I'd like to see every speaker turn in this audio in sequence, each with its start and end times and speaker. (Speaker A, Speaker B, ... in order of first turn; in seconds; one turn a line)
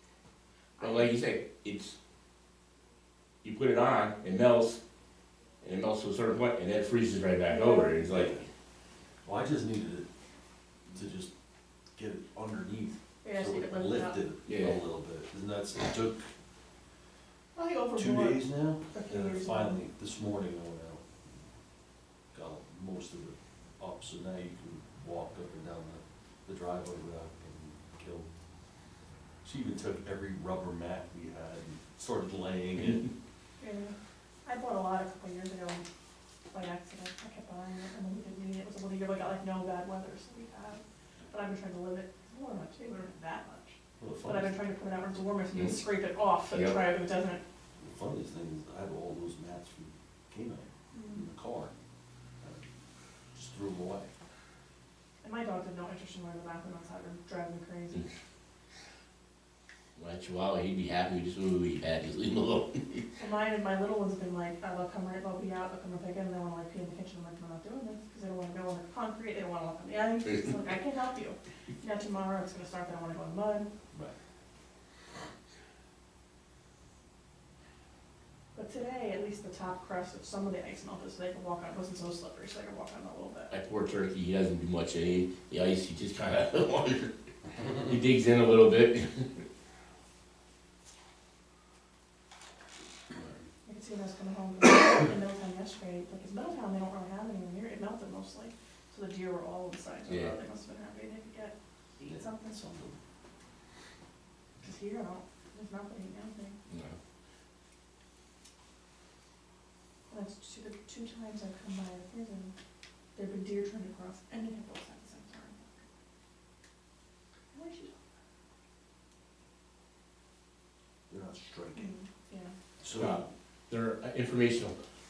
Speaker A: 0.8-1.1
Speaker B: 0.8-1.9
Speaker B: 3.4-4.8
Speaker B: 5.6-8.4
Speaker A: 7.5-8.0
Speaker C: 9.2-10.1
Speaker C: 10.9-11.3
Speaker C: 12.0-16.3
Speaker A: 13.2-14.2
Speaker B: 14.5-14.8
Speaker A: 17.6-19.8
Speaker C: 17.9-21.0
Speaker C: 22.3-28.3
Speaker C: 29.4-33.1
Speaker A: 33.6-34.0
Speaker A: 34.5-35.9
Speaker A: 36.5-47.4
Speaker C: 44.0-44.6
Speaker B: 46.5-46.8
Speaker C: 47.8-51.7
Speaker A: 50.9-51.3
Speaker C: 52.4-52.7
Speaker C: 53.4-54.1
Speaker A: 55.2-58.1
Speaker B: 60.0-63.1
Speaker A: 63.2-73.7
Speaker A: 78.5-83.5
Speaker B: 83.5-87.2
Speaker B: 87.7-89.4
Speaker A: 93.7-102.6
Speaker B: 100.1-100.3
Speaker C: 102.0-103.0
Speaker A: 104.6-106.6
Speaker B: 106.7-107.0
Speaker A: 110.1-112.5
Speaker A: 113.2-115.9
Speaker A: 117.5-118.1
Speaker C: 121.1-121.9
Speaker A: 121.7-122.5
Speaker C: 122.8-123.2
Speaker B: 122.9-124.8